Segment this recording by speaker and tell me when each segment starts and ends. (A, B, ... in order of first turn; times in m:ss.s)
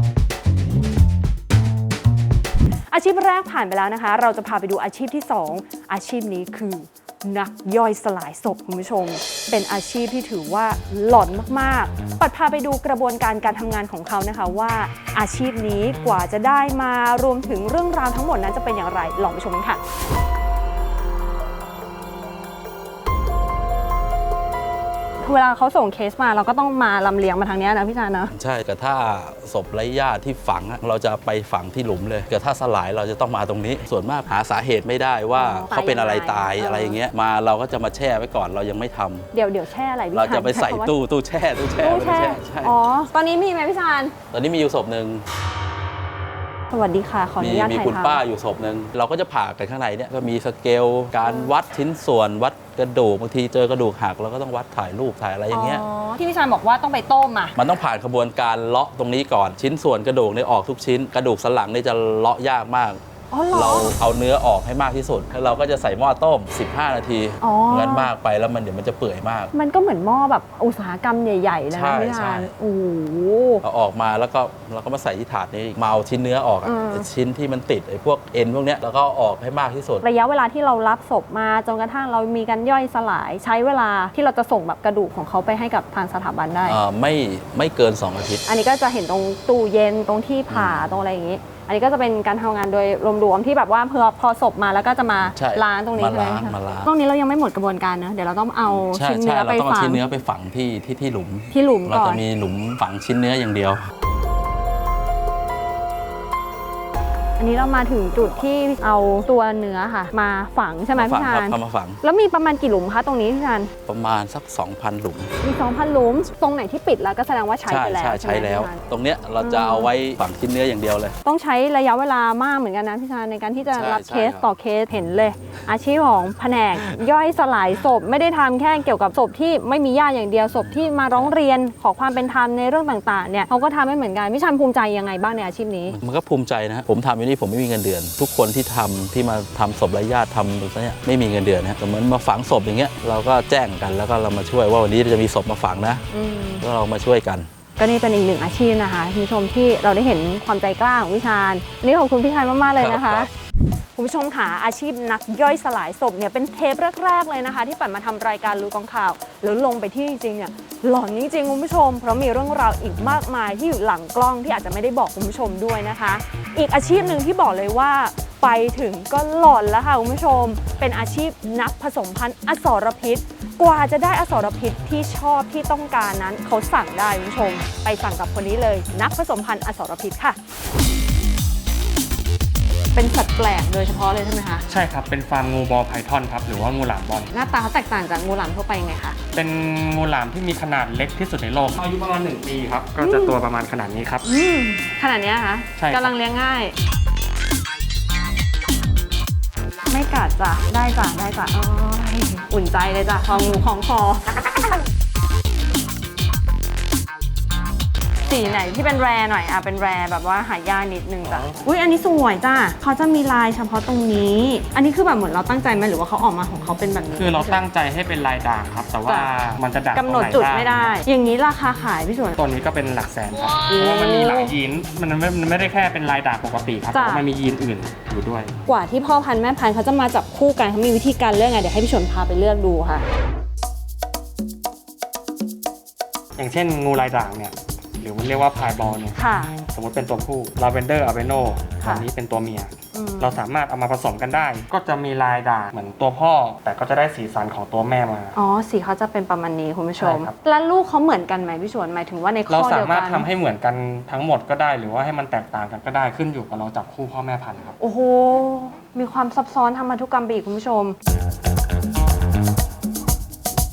0:02.9-0:19.8 A
0:25.2-0:28.3 A
0:28.3-0:39.3 B
0:35.3-0:37.0 A
0:39.3-0:40.9 A
0:40.1-0:42.8 B
0:41.8-0:44.1 A
0:44.3-0:45.2 B
0:46.7-0:48.2 A
0:47.4-0:55.8 B
0:51.2-0:51.5 A
0:55.5-0:57.5 A
0:57.6-1:03.0 B
1:03.3-1:03.9 A
1:03.5-1:09.5 B
1:07.4-1:08.1 A
1:09.5-1:13.6 A
1:11.7-1:12.5 B
1:13.6-1:20.0 B
1:16.6-1:17.1 A
1:20.0-1:26.8 A
1:26.6-1:28.4 B
1:28.4-1:40.0 A
1:30.5-1:31.0 B
1:35.2-1:36.9 B
1:38.7-1:43.8 B
1:41.5-1:42.2 A
1:47.4-1:53.7 A
1:50.9-1:52.0 B
1:53.8-1:55.3 B
1:55.4-1:58.8 A
1:57.7-2:01.1 B
1:59.4-1:59.9 A
2:01.2-2:16.0 A
2:03.7-2:04.5 B
2:10.6-2:11.3 B
2:15.9-2:26.0 B
2:26.1-2:26.6 A
2:26.6-2:27.5 B
2:27.8-2:33.3 A
2:32.7-2:33.3 B
2:33.9-3:00.4 A
3:02.9-3:04.6 A
3:04.7-3:07.3 C
3:07.3-3:09.2 A
3:09.3-3:14.3 C
3:13.0-3:13.4 A
3:14.2-3:16.7 A
3:15.8-3:16.1 C
3:19.9-3:24.2 A
3:28.2-3:37.6 A
3:31.2-3:31.6 C
3:37.1-3:41.0 C
3:39.0-3:39.3 A
3:39.9-3:42.4 A
3:42.4-3:48.6 C
3:43.6-3:44.5 A
3:46.9-3:47.3 A
3:48.7-3:53.0 A
3:56.4-4:08.4 C
3:59.2-3:59.5 A
4:02.9-4:03.4 A
4:08.3-4:13.3 A
4:10.0-4:10.4 C
4:12.5-4:17.8 C
4:17.8-4:21.0 A